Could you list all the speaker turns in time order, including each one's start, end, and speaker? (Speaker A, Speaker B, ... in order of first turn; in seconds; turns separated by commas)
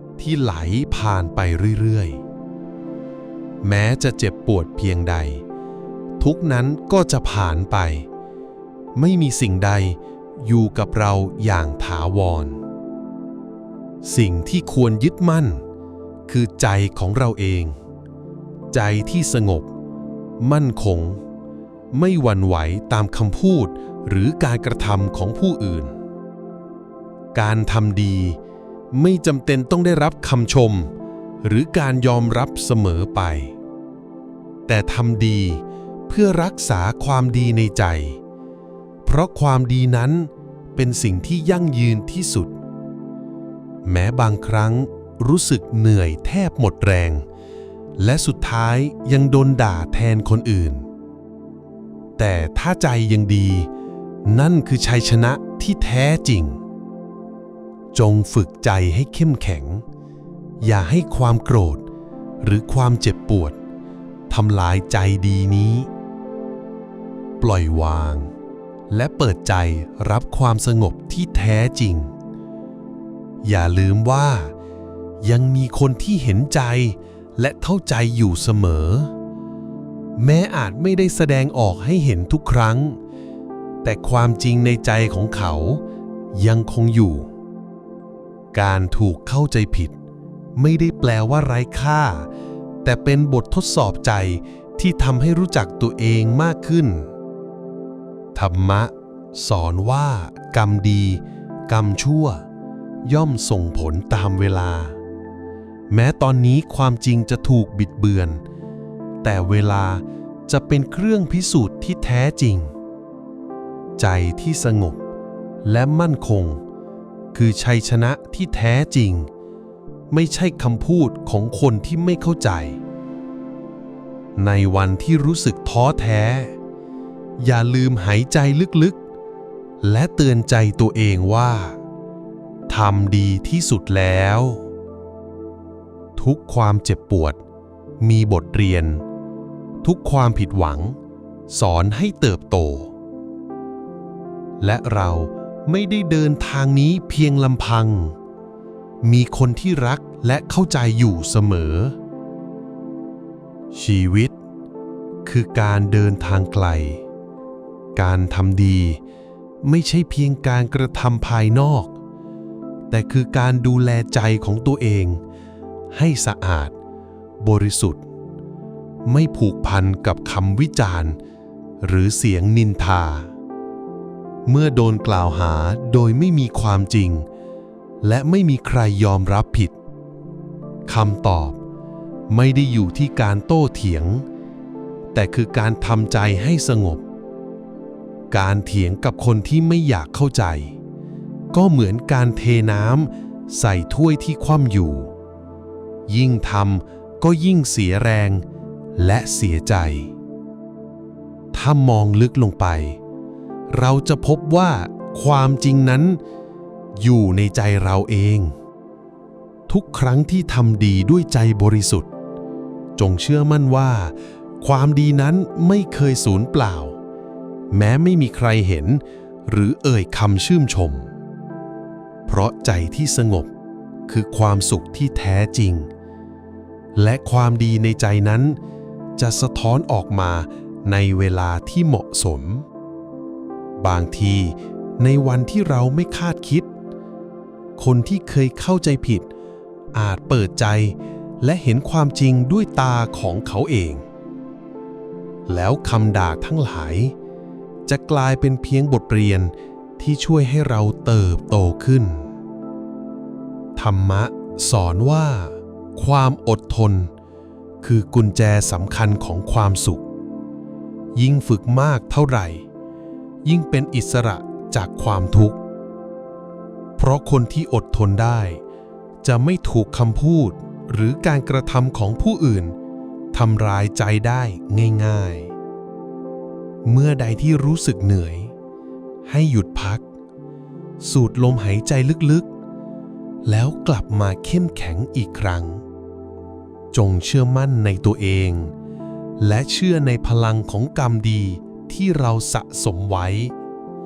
Speaker A: 0.2-1.7, Speaker B: 0.3-2.1, Speaker A: 3.6-5.3, Speaker B: 3.8-5.2, Speaker A: 6.2-7.9, Speaker B: 6.4-7.9, Speaker A: 9.0-9.4, Speaker B: 9.1-9.8, Speaker A: 10.5-12.5, Speaker B: 10.6-12.4, Speaker A: 14.2-15.2, Speaker B: 14.2-15.5, Speaker A: 16.3-17.6, Speaker B: 16.5-17.6, Speaker A: 18.8-19.4, Speaker B: 18.9-19.6, Speaker B: 20.6-21.0, Speaker A: 20.6-21.1, Speaker A: 22.0-23.6, Speaker B: 22.1-23.6, Speaker B: 24.2-25.8, Speaker A: 24.2-25.8, Speaker A: 27.4-28.3, Speaker B: 27.5-28.1, Speaker A: 29.0-30.8, Speaker B: 29.1-30.7, Speaker A: 31.5-33.3, Speaker B: 31.7-33.3, Speaker A: 34.7-35.5, Speaker B: 34.9-35.3, Speaker A: 36.1-38.0, Speaker B: 36.5-38.0, Speaker A: 39.1-40.1, Speaker B: 39.5-40.0, Speaker A: 40.8-42.5, Speaker B: 41.1-41.4, Speaker B: 42.0-42.3, Speaker A: 43.9-47.2, Speaker B: 44.2-44.7, Speaker B: 45.6-47.0, Speaker A: 48.0-50.8, Speaker B: 48.3-48.7, Speaker B: 49.5-49.9, Speaker A: 52.2-53.6, Speaker B: 52.5-53.4, Speaker B: 54.4-56.4, Speaker A: 54.5-56.4, Speaker B: 58.1-59.1, Speaker A: 58.1-59.7, Speaker A: 60.6-61.7, Speaker B: 60.9-61.6, Speaker A: 62.5-63.4, Speaker B: 62.7-63.5, Speaker A: 64.3-65.8, Speaker B: 64.5-65.7, Speaker A: 67.4-68.1, Speaker B: 67.7-68.1, Speaker A: 69.0-71.8, Speaker B: 69.2-72.0, Speaker A: 73.5-74.4, Speaker B: 73.6-74.3, Speaker A: 75.3-76.8, Speaker B: 75.4-76.8, Speaker A: 77.4-79.0, Speaker B: 77.5-78.7, Speaker A: 80.2-82.8, Speaker B: 80.6-82.8, Speaker A: 83.8-85.7, Speaker B: 84.2-85.5, Speaker A: 86.5-87.1, Speaker B: 86.6-87.1, Speaker A: 88.5-89.9, Speaker B: 89.1-89.5, Speaker A: 90.6-92.1, Speaker B: 90.8-92.0, Speaker A: 92.9-96.8, Speaker B: 93.1-94.1, Speaker B: 95.0-96.8, Speaker A: 98.4-98.8, Speaker A: 99.5-101.1, Speaker B: 99.7-100.9, Speaker A: 101.7-102.3, Speaker A: 103.1-104.8, Speaker B: 103.2-104.8, Speaker A: 105.9-108.3, Speaker A: 109.2-110.0, Speaker B: 109.4-109.8, Speaker A: 110.5-112.5, Speaker B: 110.9-112.5, Speaker A: 114.0-114.9, Speaker B: 114.2-114.6, Speaker A: 115.7-116.5, Speaker A: 117.3-119.2, Speaker A: 120.1-122.7, Speaker B: 121.3-122.5, Speaker A: 124.5-126.4, Speaker B: 125.3-125.9, Speaker A: 127.4-128.9, Speaker B: 127.7-128.0, Speaker A: 129.9-131.7, Speaker B: 130.3-131.5, Speaker A: 132.8-134.4, Speaker B: 132.9-134.4, Speaker A: 136.3-137.1, Speaker B: 136.4-137.3, Speaker B: 138.1-138.8, Speaker A: 138.1-138.9, Speaker A: 139.8-140.6, Speaker B: 140.0-140.8, Speaker B: 141.6-142.8, Speaker A: 141.9-142.4, Speaker B: 144.7-145.2, Speaker A: 145.8-146.1, Speaker B: 145.8-148.1, Speaker B: 149.1-151.9, Speaker A: 149.6-150.5, Speaker B: 153.9-154.2, Speaker A: 153.9-154.2, Speaker B: 155.3-156.8, Speaker B: 158.0-158.9, Speaker B: 159.7-161.9, Speaker A: 159.9-161.0, Speaker B: 162.9-165.2, Speaker A: 163.1-163.4, Speaker A: 164.1-164.9, Speaker B: 166.0-166.7, Speaker B: 167.5-168.0, Speaker B: 169.2-171.1, Speaker A: 169.2-171.0, Speaker B: 171.8-173.2, Speaker A: 174.5-175.2, Speaker B: 174.6-177.2, Speaker B: 178.0-179.7, Speaker A: 178.7-179.6, Speaker B: 180.9-181.6, Speaker B: 182.4-184.2, Speaker A: 182.7-183.0, Speaker A: 185.2-186.8, Speaker B: 185.3-187.0, Speaker B: 188.3-190.7, Speaker A: 189.3-190.4, Speaker A: 191.6-192.7, Speaker B: 191.6-195.1, Speaker A: 194.2-194.9, Speaker B: 196.1-198.3, Speaker B: 199.0-200.1, Speaker B: 201.6-202.9, Speaker B: 203.7-206.0, Speaker B: 207.1-208.5, Speaker B: 209.8-212.0, Speaker B: 213.0-214.1, Speaker B: 214.6-216.9, Speaker B: 217.7-221.1, Speaker B: 222.4-223.5, Speaker B: 224.1-225.9, Speaker B: 227.0-228.5, Speaker B: 229.2-232.6, Speaker B: 233.8-234.5, Speaker B: 235.0-236.6, Speaker B: 237.8-239.2, Speaker A: 238.5-239.1, Speaker B: 240.0-240.9, Speaker A: 240.2-240.6, Speaker B: 241.4-244.0, Speaker A: 241.7-242.2, Speaker B: 245.5-247.1, Speaker A: 247.9-248.9, Speaker B: 248.0-249.4, Speaker B: 250.1-252.2, Speaker B: 253.8-255.5, Speaker B: 256.1-257.1, Speaker A: 257.9-259.5, Speaker B: 258.0-260.0, Speaker B: 261.2-262.4, Speaker A: 261.3-262.2, Speaker B: 263.5-265.5, Speaker A: 263.7-265.0, Speaker A: 267.0-268.4, Speaker B: 267.2-268.4, Speaker B: 269.3-270.4, Speaker A: 269.4-270.1, Speaker B: 271.0-272.6, Speaker A: 271.1-272.6, Speaker A: 273.4-275.0, Speaker B: 273.5-275.3, Speaker B: 277.0-278.3, Speaker A: 277.1-278.1, Speaker B: 279.4-280.0, Speaker A: 279.5-279.8, Speaker B: 281.0-282.4, Speaker B: 283.5-285.8, Speaker B: 286.9-288.7, Speaker B: 289.4-293.5